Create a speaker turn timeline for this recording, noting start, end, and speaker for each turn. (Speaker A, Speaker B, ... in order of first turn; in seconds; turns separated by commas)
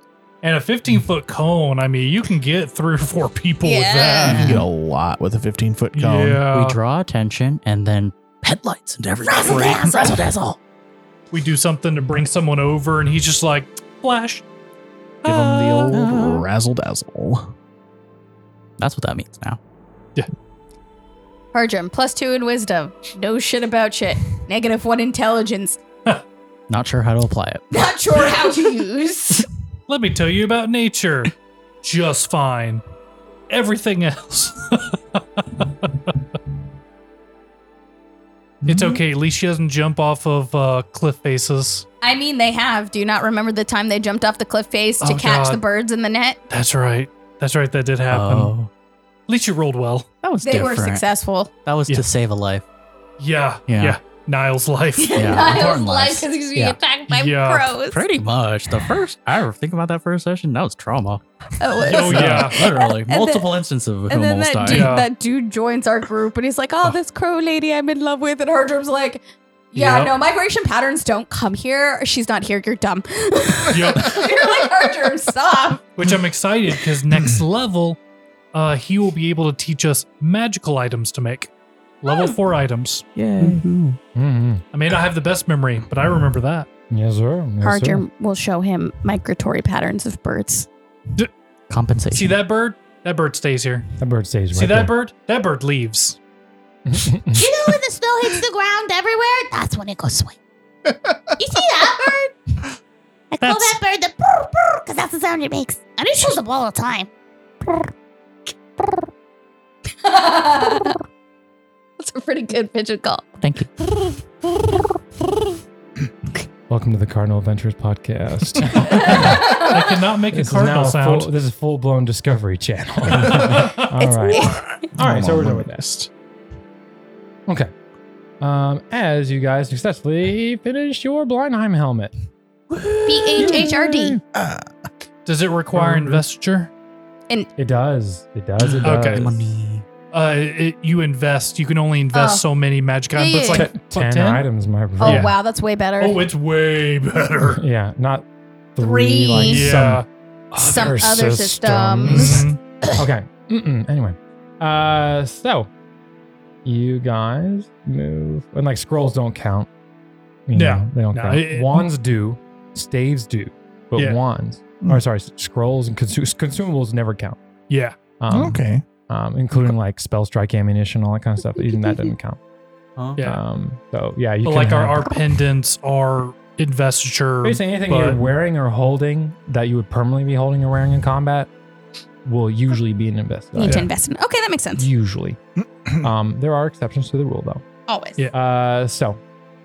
Speaker A: 0.4-4.6, Speaker B: 3.6-4.6, Speaker C: 4.2-6.4, Speaker D: 4.3-4.6, Speaker A: 5.9-6.8, Speaker D: 6.5-10.6, Speaker E: 9.3-10.0, Speaker A: 11.3-14.4, Speaker A: 15.2-16.0, Speaker C: 15.2-17.5, Speaker D: 15.9-16.5, Speaker D: 18.8-19.6, Speaker B: 21.5-25.8, Speaker D: 26.7-27.6, Speaker B: 27.7-29.5, Speaker A: 29.9-32.8, Speaker A: 33.5-36.2, Speaker A: 38.6-41.9, Speaker B: 42.0-46.4, Speaker A: 45.0-45.6, Speaker A: 46.5-48.5, Speaker D: 48.1-48.7, Speaker A: 49.3-50.1, Speaker D: 50.2-51.1, Speaker B: 50.4-51.5, Speaker D: 51.6-52.6, Speaker A: 53.2-55.5, Speaker D: 53.7-54.0, Speaker B: 55.0-58.0, Speaker D: 55.1-56.8, Speaker A: 57.1-57.7, Speaker D: 57.9-61.2, Speaker B: 61.6-63.5, Speaker A: 61.8-62.6, Speaker D: 61.9-64.9, Speaker B: 64.1-69.2, Speaker A: 64.6-65.1, Speaker B: 69.7-75.9, Speaker A: 69.7-70.1, Speaker A: 73.7-74.2, Speaker A: 76.0-78.0, Speaker A: 78.5-81.5, Speaker A: 82.0-83.0, Speaker B: 82.1-82.3, Speaker D: 83.2-84.0, Speaker F: 84.1-84.6, Speaker A: 84.7-86.7, Speaker F: 86.9-88.0, Speaker B: 87.6-90.7, Speaker D: 91.7-92.4, Speaker A: 92.1-93.9, Speaker F: 94.0-94.9, Speaker A: 94.5-96.2, Speaker F: 96.8-97.4, Speaker E: 97.3-100.3, Speaker C: 100.8-101.4, Speaker E: 101.4-102.3, Speaker E: 103.3-107.1, Speaker A: 103.4-103.8, Speaker B: 110.0-110.9, Speaker B: 112.0-113.3, Speaker D: 113.4-113.7, Speaker F: 116.7-119.6, Speaker B: 118.9-119.9, Speaker A: 119.1-121.3, Speaker F: 120.3-125.8, Speaker A: 123.5-123.8, Speaker B: 124.0-124.7, Speaker C: 124.7-126.1, Speaker F: 128.4-132.1, Speaker B: 133.1-134.2, Speaker F: 133.3-134.2, Speaker C: 134.3-134.7, Speaker A: 135.2-136.7, Speaker F: 135.7-136.2, Speaker F: 137.6-139.4, Speaker A: 138.8-139.2, Speaker D: 138.8-139.8, Speaker A: 140.1-144.4, Speaker B: 142.1-142.4, Speaker B: 143.1-143.7, Speaker F: 143.5-145.3, Speaker B: 145.0-146.3, Speaker A: 145.0-145.3, Speaker A: 146.0-147.6, Speaker F: 147.4-155.7, Speaker B: 148.8-149.7, Speaker A: 149.4-150.1, Speaker B: 150.6-152.4, Speaker A: 152.1-152.6, Speaker F: 156.6-159.7, Speaker F: 160.5-167.4, Speaker A: 160.5-161.9, Speaker A: 167.7-167.9, Speaker F: 168.2-172.4, Speaker C: 168.3-168.8, Speaker F: 173.2-175.1, Speaker A: 174.4-178.2, Speaker F: 177.4-181.5, Speaker F: 182.2-183.9, Speaker B: 183.6-184.9, Speaker A: 183.6-183.9, Speaker F: 184.7-185.4, Speaker C: 185.6-186.1, Speaker F: 186.0-187.6, Speaker B: 187.9-188.2, Speaker F: 188.3-189.2